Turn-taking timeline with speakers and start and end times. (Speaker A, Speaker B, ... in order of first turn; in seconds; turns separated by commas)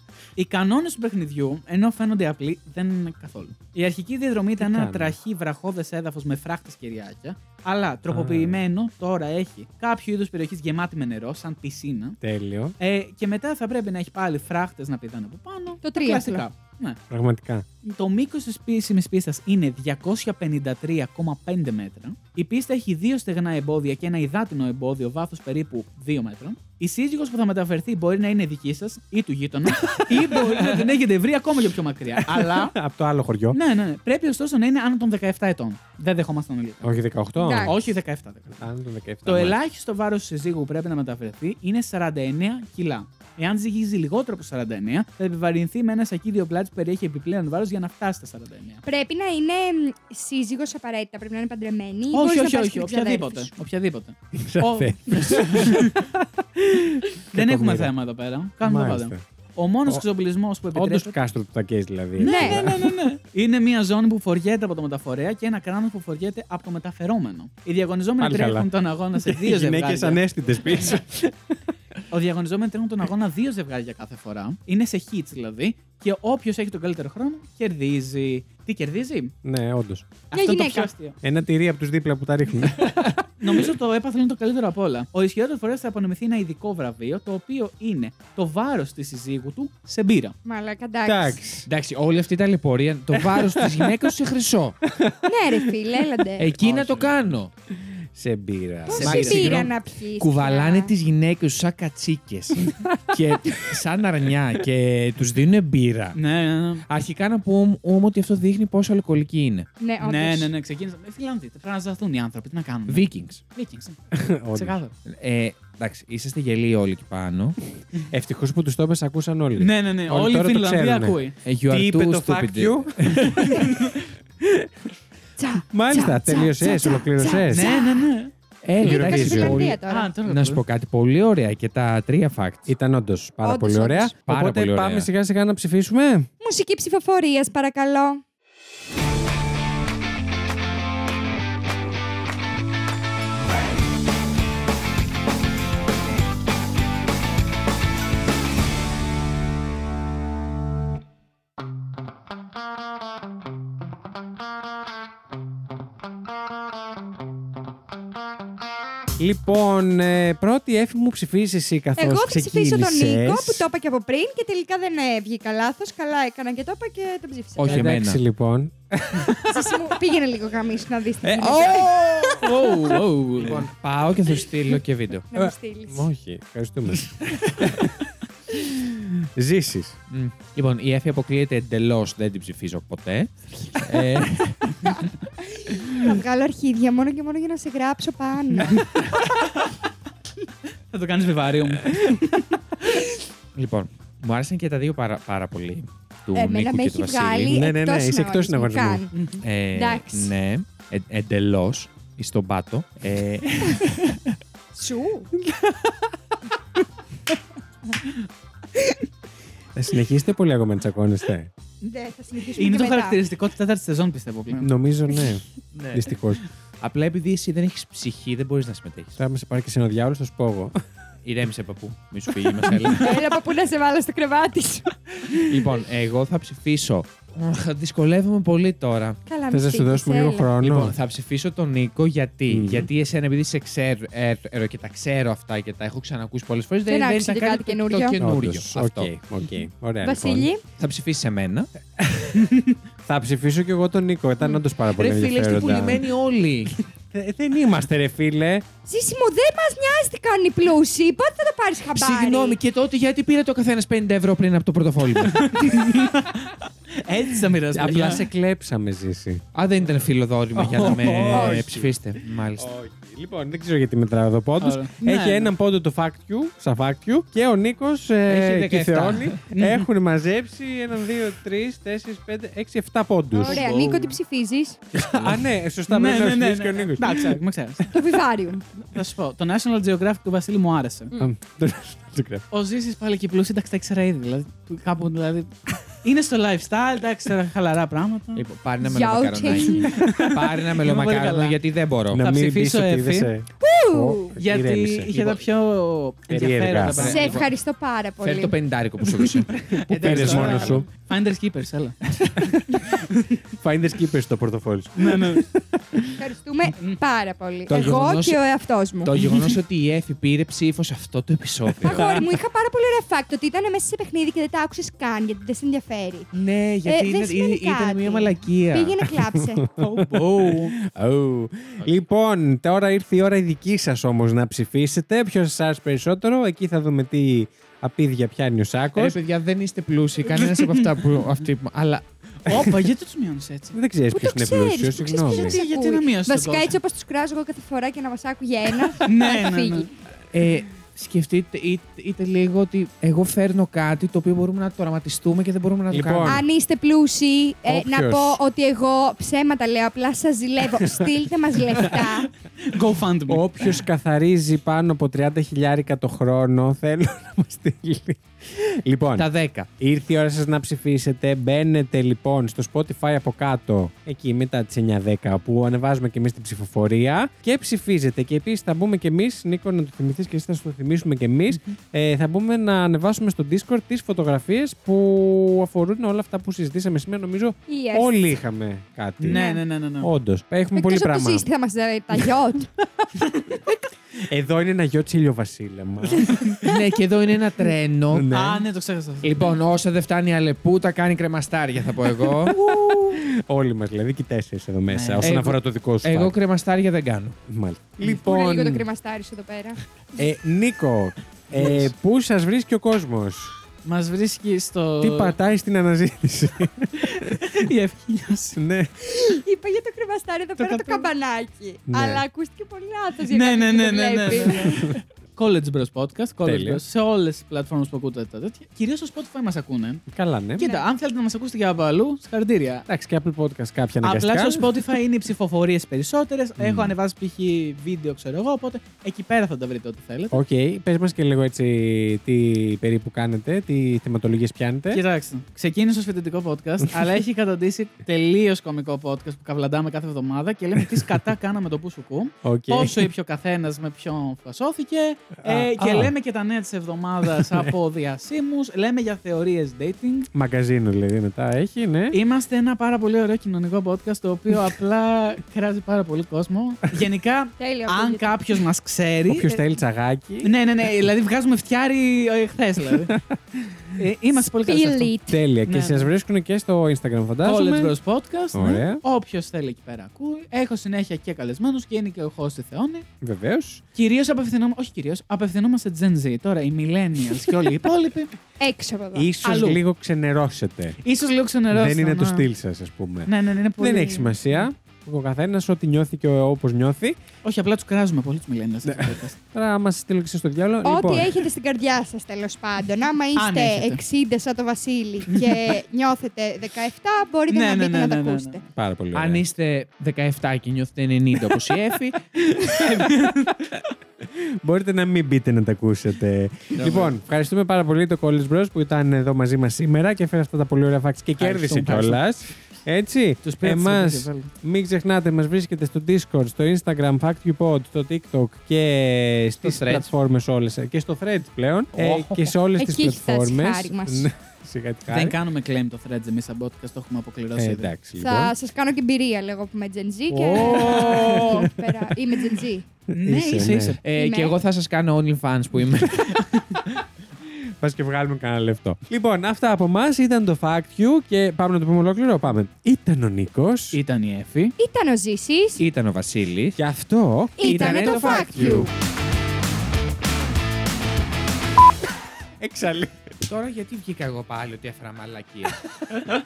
Speaker A: 0.3-12.2, Speaker B: 4.6-5.1, Speaker B: 8.1-8.6, Speaker B: 12.2-12.7, Speaker A: 12.8-17.0, Speaker C: 15.8-16.4, Speaker B: 17.1-17.6, Speaker A: 17.8-32.7, Speaker B: 32.2-33.6, Speaker A: 33.5-37.0, Speaker B: 36.8-38.0, Speaker C: 37.4-37.7, Speaker A: 37.6-38.6, Speaker B: 38.5-39.6, Speaker A: 39.2-48.8, Speaker C: 48.8-53.5, Speaker A: 52.1-61.1, Speaker B: 54.4-56.2, Speaker B: 57.3-57.9, Speaker B: 58.6-59.2, Speaker B: 60.7-62.9, Speaker A: 62.2-70.2, Speaker C: 62.2-62.7, Speaker B: 68.2-71.5, Speaker A: 72.1-79.3, Speaker B: 79.4-80.1, Speaker A: 80.3-81.2, Speaker C: 80.3-80.9, Speaker B: 81.2-83.1, Speaker D: 82.8-83.2, Speaker A: 83.4-90.3, Speaker C: 90.4-91.4, Speaker B: 91.0-91.7, Speaker D: 91.7-94.8, Speaker B: 93.2-94.1, Speaker B: 94.8-95.7, Speaker C: 95.2-96.5, Speaker D: 96.4-97.5, Speaker B: 96.6-97.2, Speaker B: 98.1-99.7, Speaker C: 98.9-100.9, Speaker D: 98.9-106.2, Speaker A: 99.0-99.6, Speaker B: 102.7-103.0, Speaker A: 106.2-106.8, Speaker D: 106.9-109.7, Speaker C: 109.8-110.5, Speaker A: 110.0-114.0, Speaker D: 112.9-113.4, Speaker B: 114.1-114.8, Speaker A: 114.5-114.9, Speaker D: 115.0-117.6, Speaker B: 118.1-124.9, Speaker A: 119.5-121.4, Speaker D: 121.4-123.6, Speaker A: 123.3-124.1, Speaker C: 125.4-128.1, Speaker B: 125.7-127.7, Speaker A: 127.5-128.3, Speaker D: 128.6-129.6, Speaker B: 128.8-129.8, Speaker C: 128.8-130.1, Speaker A: 129.4-130.6, Speaker D: 130.2-132.7, Speaker B: 132.7-136.3, Speaker C: 133.4-134.1, Speaker D: 134.3-135.1, Speaker C: 136.4-138.2, Speaker B: 159.2-163.6, Speaker C: 162.0-167.8, Speaker D: 167.6-168.2, Speaker B: 167.7-169.4, Speaker C: 169.4-172.4, Speaker D: 171.2-172.4, Speaker A: 171.5-173.7, Speaker D: 173.4-175.3, Speaker C: 175.3-176.1, Speaker B: 175.3-177.9, Speaker D: 177.2-177.7, Speaker B: 178.6-179.9, Speaker D: 180.1-184.9, Speaker C: 184.8-188.9, Speaker A: 188.6-189.7, Speaker A: 190.9-192.6, Speaker D: 193.5-197.5, Speaker C: 196.3-199.1, Speaker B: 197.5-199.1, Speaker A: 199.1-199.4, Speaker D: 199.4-204.3, Speaker C: 199.7-200.3, Speaker C: 204.7-205.3, Speaker B: 209.7-211.5, Speaker C: 211.8-213.2, Speaker A: 212.5-214.7, Speaker B: 214.6-216.4, Speaker D: 215.7-216.2, Speaker D: 216.8-219.2, Speaker B: 219.2-220.7, Speaker D: 221.2-223.1, Speaker A: 222.8-223.2, Speaker C: 222.9-224.9, Speaker D: 225.3-229.2, Speaker C: 229.2-230.5, Speaker B: 229.5-230.9, Speaker D: 230.6-239.1, Speaker B: 232.5-232.9, Speaker C: 236.9-238.2, Speaker B: 238.2-240.5, Speaker C: 240.0-240.6, Speaker D: 240.8-242.3, Speaker A: 242.3-242.8, Speaker B: 243.0-246.0, Speaker D: 244.9-246.8, Speaker B: 247.1-248.7, Speaker C: 248.8-252.6, Speaker D: 251.9-255.8, Speaker A: 255.2-258.2, Speaker B: 257.7-259.4, Speaker D: 259.5-262.7, Speaker B: 260.6-261.9, Speaker A: 260.6-261.5, Speaker C: 261.2-261.6, Speaker B: 262.6-273.7, Speaker A: 264.6-265.5, Speaker D: 268.3-269.4, Speaker A: 269.5-269.9, Speaker A: 273.3-274.2, Speaker C: 273.4-274.8, Speaker B: 274.9-277.4, Speaker A: 275.9-277.9, Speaker C: 277.9-278.6, Speaker A: 278.8-281.1, Speaker B: 281.2-282.4, Speaker A: 282.5-288.4, Speaker D: 288.3-292.4, Speaker C: 288.8-289.9, Speaker A: 289.9-291.6, Speaker B: 290.0-290.3, Speaker B: 292.1-295.1, Speaker A: 292.2-293.3, Speaker C: 293.6-294.4, Speaker A: 294.4-297.5, Speaker D: 295.1-295.4, Speaker B: 296.3-297.1, Speaker D: 296.8-297.5, Speaker C: 297.0-298.5, Speaker D: 298.2-300.8, Speaker A: 299.5-303.4, Speaker B: 299.7-300.9, Speaker B: 303.5-305.5, Speaker A: 305.0-305.5, Speaker C: 306.2-309.1, Speaker D: 307.7-308.4, Speaker D: 309.0-312.0, Speaker A: 309.1-309.6, Speaker C: 311.8-316.3, Speaker A: 311.9-312.3, Speaker D: 316.3-319.0, Speaker C: 316.8-319.6, Speaker B: 319.1-329.2, Speaker A: 319.8-320.7, Speaker D: 328.9-332.0, Speaker A: 330.3-330.9, Speaker A: 332.4-333.8, Speaker B: 333.7-335.6, Speaker C: 334.1-339.9, Speaker A: 335.3-336.8, Speaker A: 339.0-339.9, Speaker D: 340.3-346.4, Speaker B: 345.9-346.4, Speaker C: 346.2-352.3, Speaker B: 347.6-348.4, Speaker A: 352.7-353.8, Speaker B: 353.3-359.3, Speaker D: 359.1-359.7, Speaker B: 359.8-379.5, Speaker C: 377.7-378.3, Speaker A: 379.2-380.1, Speaker C: 379.3-379.6, Speaker B: 380.0-381.5, Speaker C: 380.7-382.7, Speaker B: 384.2-386.5, Speaker A: 386.2-386.7, Speaker D: 386.6-388.3, Speaker B: 388.1-388.6, Speaker A: 388.3-389.6, Speaker D: 389.2-392.6, Speaker B: 392.5-396.3, Speaker A: 392.5-393.2, Speaker A: 394.9-395.5, Speaker D: 395.2-397.4, Speaker B: 397.5-398.9, Speaker C: 398.0-399.8, Speaker B: 400.1-403.5, Speaker A: 401.5-401.9, Speaker A: 403.8-405.4, Speaker B: 405.0-407.6, Speaker A: 407.0-408.6, Speaker B: 408.6-408.9, Speaker C: 409.0-414.8, Speaker A: 410.6-411.1, Speaker B: 411.9-412.2, Speaker A: 413.3-420.0, Speaker B: 414.6-415.0, Speaker B: 416.4-416.8, Speaker B: 420.1-420.7, Speaker A: 420.6-422.9, Speaker C: 420.6-420.9, Speaker B: 422.9-424.8, Speaker A: 424.0-430.4, Speaker B: 426.6-426.9, Speaker B: 430.3-435.0, Speaker A: 434.9-450.3, Speaker B: 442.4-443.1, Speaker B: 445.4-446.1, Speaker B: 447.3-447.7, Speaker B: 450.3-452.2, Speaker A: 452.1-459.6, Speaker C: 457.6-458.3, Speaker B: 459.3-460.5, Speaker A: 460.4-463.1, Speaker A: 463.9-465.1, Speaker C: 464.4-465.4, Speaker B: 465.3-467.9, Speaker A: 465.6-466.1, Speaker A: 467.4-473.1, Speaker B: 468.5-469.0, Speaker B: 473.2-473.8, Speaker A: 473.9-478.3, Speaker C: 478.6-479.3, Speaker B: 479.1-481.0, Speaker A: 479.4-479.8, Speaker A: 481.0-482.4, Speaker B: 481.7-487.2, Speaker A: 483.2-484.7, Speaker A: 487.4-489.4, Speaker B: 488.8-491.4, Speaker C: 490.8-498.6, Speaker A: 493.3-494.0, Speaker A: 497.5-498.6, Speaker B: 498.7-499.4, Speaker D: 499.1-502.9, Speaker A: 502.6-503.7, Speaker B: 504.2-525.4, Speaker D: 506.7-507.1, Speaker A: 511.4-512.2, Speaker D: 511.7-512.1, Speaker A: 513.4-514.5, Speaker D: 519.6-520.1, Speaker D: 521.9-522.5, Speaker C: 522.8-524.3, Speaker A: 525.1-527.9, Speaker B: 527.5-528.5, Speaker C: 528.1-532.9, Speaker B: 530.3-532.3, Speaker A: 530.6-531.5, Speaker D: 530.8-531.3, Speaker B: 533.1-534.0, Speaker A: 533.1-534.0, Speaker D: 534.0-536.6, Speaker C: 534.1-534.5, Speaker B: 537.8-544.0, Speaker A: 543.9-544.7, Speaker C: 544.8-545.8, Speaker D: 545.8-546.8, Speaker B: 546.8-548.9, Speaker C: 547.6-548.9, Speaker D: 547.6-548.8, Speaker A: 547.7-548.7, Speaker B: 552.6-553.2, Speaker D: 553.4-555.8